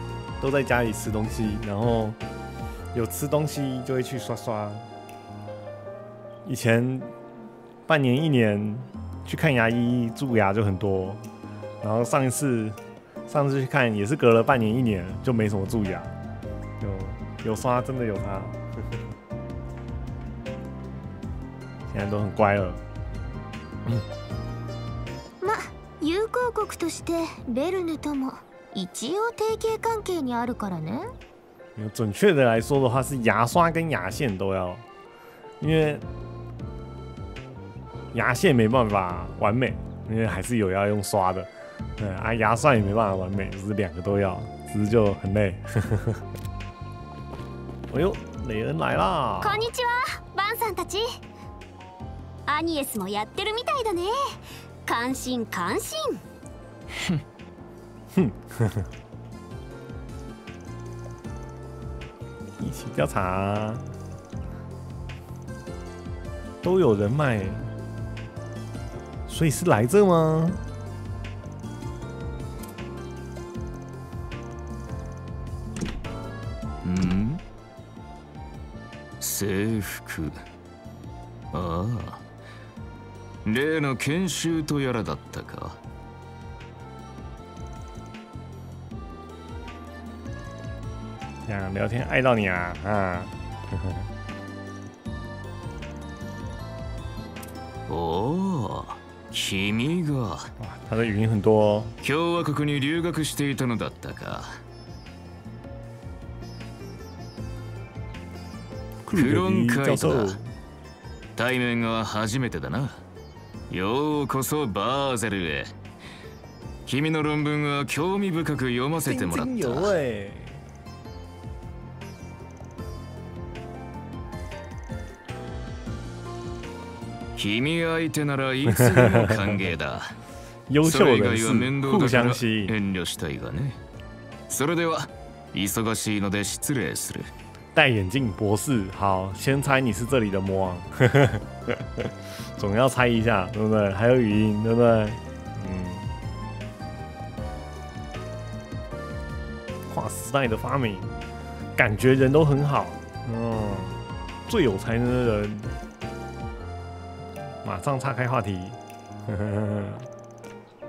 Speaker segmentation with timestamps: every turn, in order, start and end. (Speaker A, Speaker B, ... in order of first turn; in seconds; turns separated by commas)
Speaker A: 0.4-2.2, Speaker A: 2.9-4.9, Speaker A: 6.5-7.1, Speaker A: 7.9-11.3, Speaker A: 11.8-16.2, Speaker A: 16.8-18.6, Speaker A: 21.9-22.8, Speaker B: 25.4-31.1, Speaker A: 31.8-34.9, Speaker A: 35.6-36.0, Speaker A: 38.1-46.2, Speaker A: 47.9-49.7, Speaker B: 49.4-51.1, Speaker B: 52.5-54.1, Speaker B: 54.9-56.2, Speaker A: 58.1-58.9, Speaker A: 62.6-63.9, Speaker A: 66.6-67.7, Speaker A: 69.3-70.6, Speaker C: 76.8-77.4, Speaker C: 79.2-80.4, Speaker C: 81.5-82.2, Speaker C: 83.5-85.8, Speaker A: 91.5-94.1, Speaker C: 97.9-100.5, Speaker A: 100.6-102.0, Speaker C: 102.0-104.6, Speaker A: 109.1-110.5, Speaker C: 109.1-110.4, Speaker C: 111.4-113.0, Speaker C: 113.7-115.7, Speaker C: 116.9-120.0, Speaker A: 119.0-120.6, Speaker C: 127.4-130.2, Speaker A: 128.8-129.3, Speaker A: 130.7-132.8, Speaker C: 130.8-133.8, Speaker C: 134.5-137.3, Speaker A: 137.8-146.2, Speaker A: 149.9-151.2, Speaker A: 151.8-155.7, Speaker A: 157.6-160.1